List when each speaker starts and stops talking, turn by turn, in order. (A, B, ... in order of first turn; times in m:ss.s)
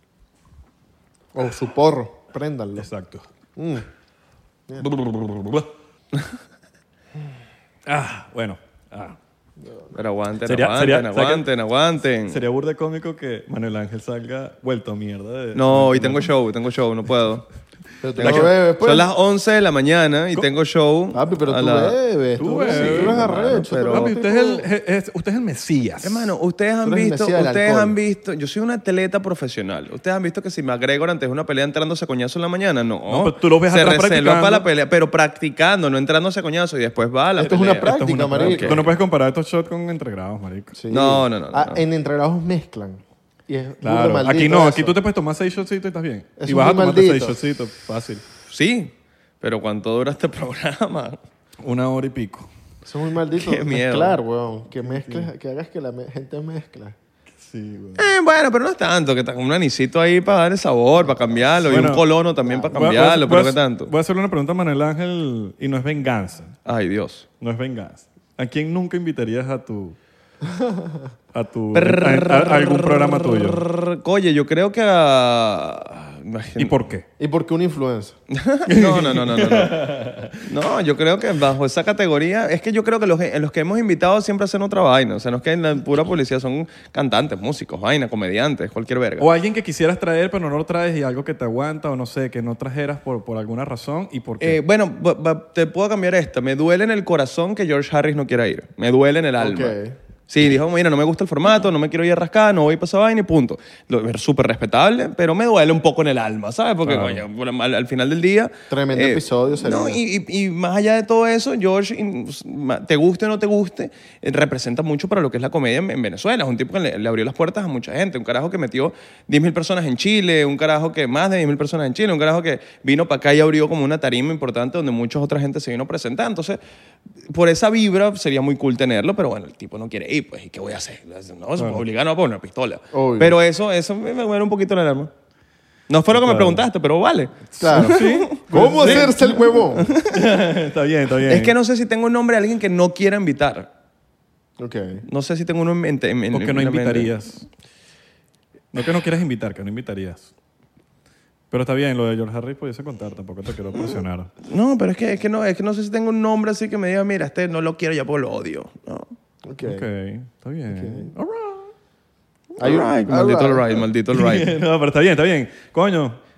0:01.3-0:02.9 A
0:02.8-0:03.2 B
0:03.6-0:03.9 A
0:04.8-0:05.7 B
0:07.9-0:09.2 B
0:09.9-0:12.4 C
0:10.5-0:11.5 B
0:12.3-0:16.3 B
0:15.5-0:17.4 C
0:18.0-0:19.1 A
0:18.2-0:18.5 B
0:18.2-0:22.0 C
0:21.1-0:24.7 A
0:22.4-0:26.3 B
0:22.6-0:24.1 C
0:26.0-0:38.8 C
0:26.8-0:28.0 A
0:33.1-0:34.7 B
0:37.4-0:38.9 A
0:37.7-0:40.8 B
0:40.8-0:45.0 A
0:40.9-0:41.8 C
0:43.8-0:48.2 B
0:46.4-0:47.4 A
0:48.5-0:51.2 C
0:51.6-0:52.5 B
0:52.8-0:57.0 A
0:53.3-0:54.2 C
0:54.8-0:55.3 B
0:57.3-0:58.1 B
0:58.0-1:03.9 C
1:01.7-1:02.0 B
1:02.4-1:02.9 A
1:02.7-1:06.6 B
1:06.7-1:07.2 C
1:07.4-1:10.0 B
1:10.4-1:11.1 A
1:11.3-1:13.6 B
1:11.7-1:16.8 C
1:16.6-1:17.1 B
1:17.2-1:18.2 A
1:18.3-1:19.9 C
1:18.7-1:20.4 B
1:20.4-1:29.3 C
1:29.2-1:34.6 B
1:34.4-1:39.8 C
1:39.4-1:40.0 A
1:40.3-2:06.6 C
1:46.8-1:47.2 B
1:48.7-1:50.0 A
2:07.3-2:15.1 C
2:11.6-2:11.8 B
2:12.9-2:13.4 A
2:15.9-2:19.1 C
2:16.1-2:16.7 B
2:17.5-2:21.5 B
2:17.6-2:19.9 A
2:19.8-2:20.1 C
2:21.3-2:23.7 C
2:24.6-2:25.0 A
2:25.0-2:27.1 C
2:26.3-2:27.5 B
2:28.7-2:30.3 B
2:31.5-2:34.3 B
2:34.5-2:39.1 C
2:39.5-2:39.8 A
2:39.6-2:41.7 B
2:40.7-2:41.1 A
2:42.6-2:44.6 C
2:42.6-2:43.8 A
2:44.1-2:46.2 B